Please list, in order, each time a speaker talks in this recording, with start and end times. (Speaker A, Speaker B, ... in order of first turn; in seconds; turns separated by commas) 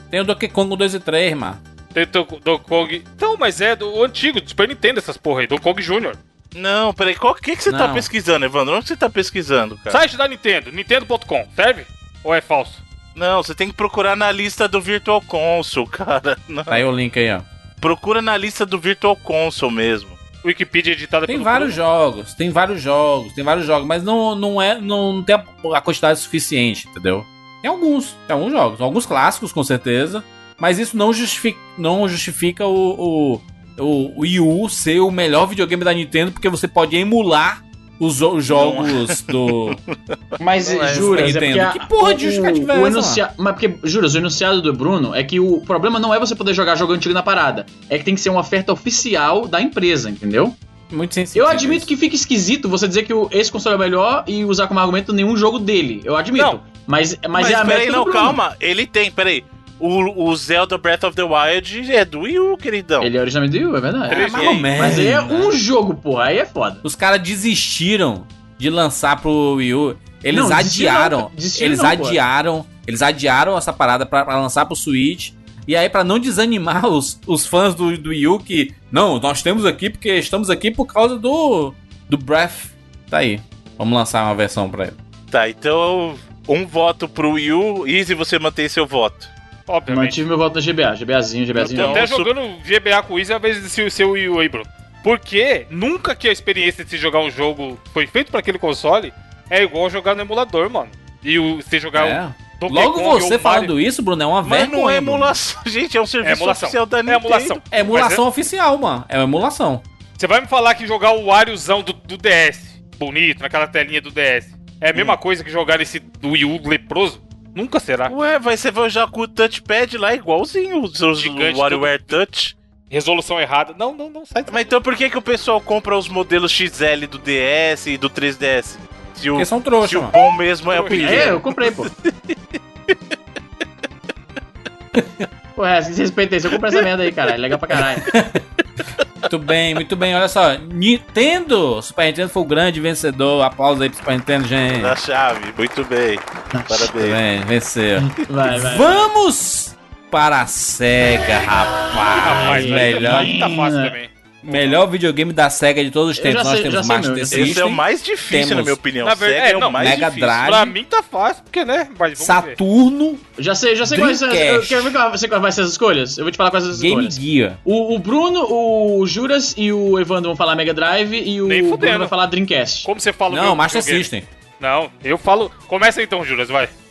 Speaker A: 0.1-1.6, Speaker B: 1.9-6.2, Speaker C: 6.5-10.0, Speaker A: 7.7-8.1, Speaker B: 9.9-12.8, Speaker C: 13.2-16.8, Speaker A: 16.7-17.5, Speaker C: 17.8-20.2, Speaker B: 20.4-21.8, Speaker A: 21.3-39.8, Speaker C: 38.5-39.8, Speaker D: 40.4-50.6, Speaker C: 40.6-41.3, Speaker A: 40.9-43.2, Speaker A: 50.9-51.9, Speaker D: 51.3-58.4, Speaker C: 57.4-63.1, Speaker D: 63.0-66.8, Speaker B: 64.1-64.7, Speaker C: 64.1-65.0, Speaker A: 64.2-65.6, Speaker A: 66.8-85.0, Speaker D: 70.3-72.2, Speaker C: 85.3-89.3, Speaker B: 89.7-90.2, Speaker D: 89.9-92.0, Speaker C: 91.6-92.3, Speaker B: 91.7-103.7, Speaker A: 101.9-105.4, Speaker C: 104.4-107.6, Speaker B: 106.2-108.2, Speaker A: 107.7-109.8, Speaker B: 110.2-118.1, Speaker C: 118.1-122.6, Speaker B: 121.2-122.2, Speaker B: 122.9-124.7, Speaker C: 124.5-132.4, Speaker A: 129.3-130.2, Speaker B: 130.7-131.4, Speaker D: 131.0-131.9, Speaker D: 135.6-138.1, Speaker A: 138.0-138.4, Speaker A: 139.3-145.0, Speaker C: 144.7-147.2, Speaker D: 146.5-146.9, Speaker A: 146.9-153.3, Speaker D: 148.0-149.1, Speaker B: 152.2-154.8, Speaker D: 152.4-153.9, Speaker A: 154.4-158.8, Speaker D: 156.2-157.6, Speaker C: 157.3-160.4, Speaker B: 159.0-162.6, Speaker A: 159.8-160.8, Speaker A: 162.2-163.2, Speaker D: 163.4-172.9, Speaker A: 163.8-164.9, Speaker A: 166.7-167.6, Speaker B: 171.5-172.1, Speaker B: 172.8-174.1, Speaker A: 173.3-174.3, Speaker B: 174.6-176.7